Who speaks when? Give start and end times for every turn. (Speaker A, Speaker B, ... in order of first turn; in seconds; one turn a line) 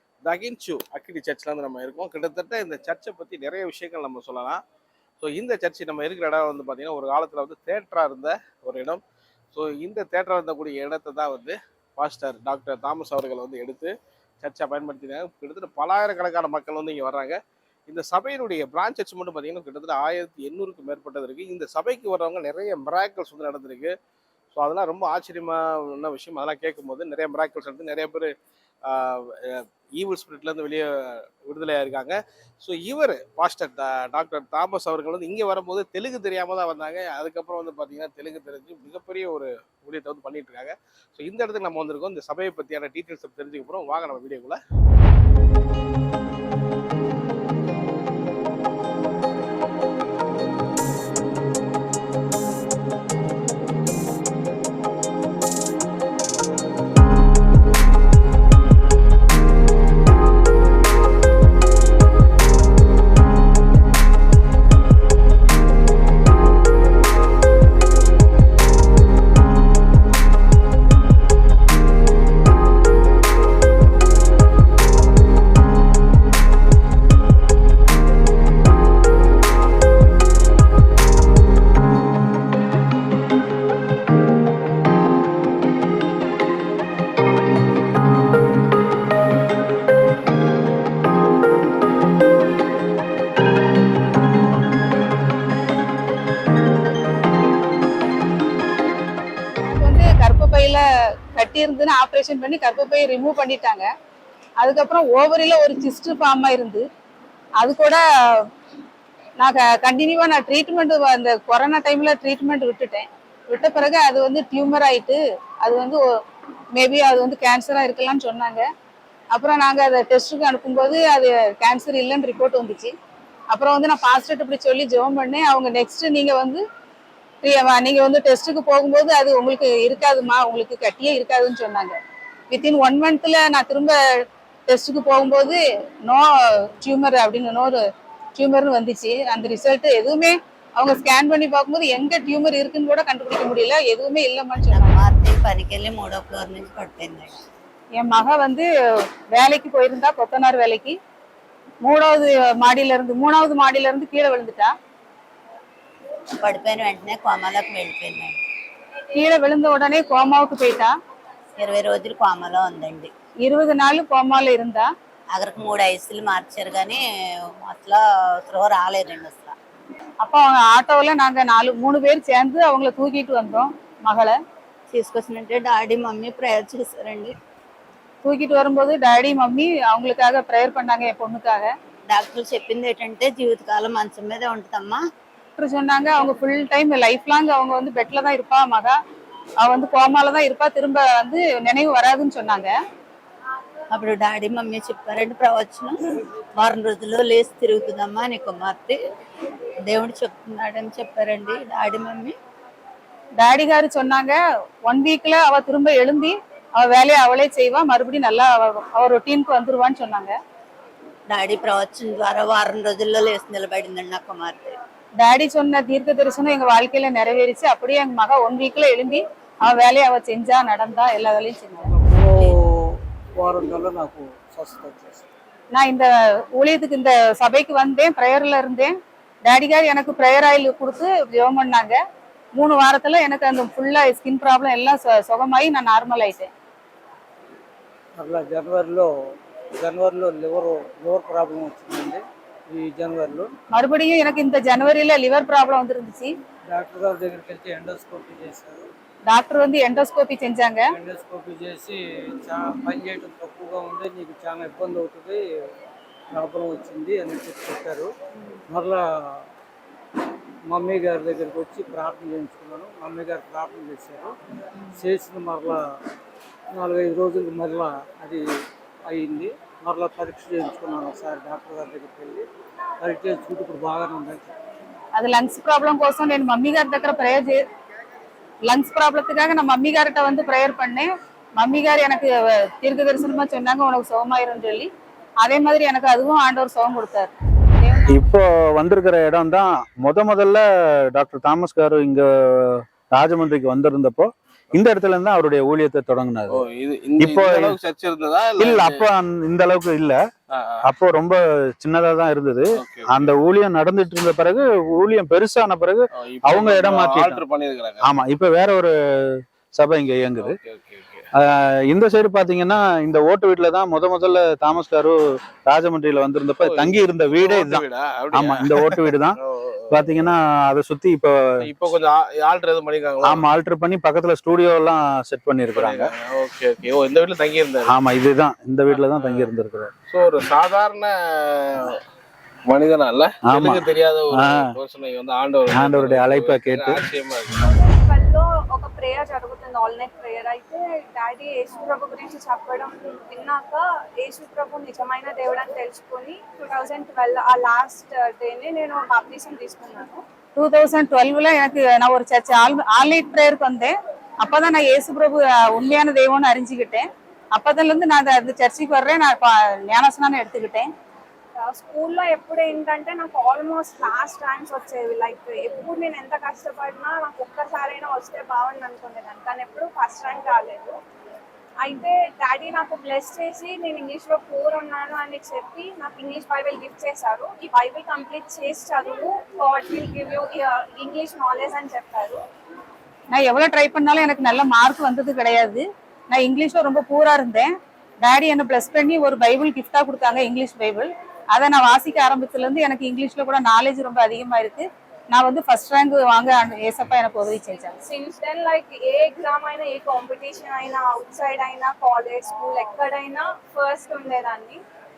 Speaker A: 0.2-4.6
Speaker A: 5.2-9.0
Speaker A: 9.5-17.4
Speaker A: 17.9-23.9
Speaker A: 24.5-28.3
Speaker A: 28.9-30.9
Speaker A: 31.4-44.6
Speaker B: 99.6-103.8
Speaker B: 104.6-106.8
Speaker B: 107.6-108.4
Speaker B: 109.4-116.0
Speaker B: 116.7-118.6
Speaker B: 119.3-122.9
Speaker B: 123.5-126.6
Speaker B: 127.4-131.9
Speaker B: 132.5-133.9
Speaker B: 134.7-137.8
Speaker B: 138.3-145.0
Speaker C: 144.7-147.3
Speaker B: 148.0-148.7
Speaker B: 149.3-150.9
Speaker B: 151.8-154.7
Speaker C: 156.3-158.3
Speaker B: 159.2-160.9
Speaker C: 161.6-163.1
Speaker B: 163.4-164.9
Speaker C: 165.3-167.0
Speaker C: 167.6-169.5
Speaker B: 170.2-174.3
Speaker C: 174.9-177.3
Speaker B: 178.2-181.7
Speaker C: 182.1-185.0
Speaker B: 185.6-189.0
Speaker B: 189.6-192.7
Speaker C: 193.9-195.9
Speaker C: 196.6-198.9
Speaker C: 199.9-202.3
Speaker B: 203.4-210.3
Speaker C: 211.3-214.7
Speaker B: 215.2-221.9
Speaker D: 221.9-225.2
Speaker B: 225.7-228.9
Speaker B: 229.4-232.0
Speaker B: 232.6-236.5
Speaker D: 238.2-239.1
Speaker D: 239.8-243.5
Speaker B: 243.7-246.3
Speaker D: 246.7-248.9
Speaker B: 249.3-250.8
Speaker D: 250.9-255.4
Speaker D: 256.3-258.1
Speaker D: 258.7-259.4
Speaker D: 260.7-264.3
Speaker D: 264.9-265.8
Speaker D: 266.7-268.4
Speaker D: 269.1-272.4
Speaker D: 273.0-274.5
Speaker B: 275.1-277.6
Speaker B: 278.7-284.9
Speaker B: 285.4-288.2
Speaker E: 288.1-296.6
Speaker A: 296.5-299.1
Speaker E: 297.2-297.8
Speaker E: 298.6-300.2
Speaker A: 300.5-300.9
Speaker E: 300.8-307.4
Speaker A: 302.8-303.3
Speaker A: 306.2-308.2
Speaker E: 308.0-310.6
Speaker A: 310.4-311.2
Speaker E: 311.3-319.4
Speaker A: 316.6-320.1
Speaker E: 319.9-321.4
Speaker A: 321.6-323.4
Speaker E: 323.2-326.1
Speaker A: 325.7-327.9
Speaker E: 327.8-329.9
Speaker A: 328.9-329.5
Speaker A: 330.1-332.0
Speaker A: 332.7-337.7
Speaker E: 333.4-334.6
Speaker E: 335.7-337.0
Speaker F: 337.8-350.2
Speaker B: 350.6-360.9
Speaker F: 361.6-371.0
Speaker F: 371.8-382.4
Speaker B: 383.3-387.7
Speaker B: 388.2-397.9
Speaker F: 397.9-404.8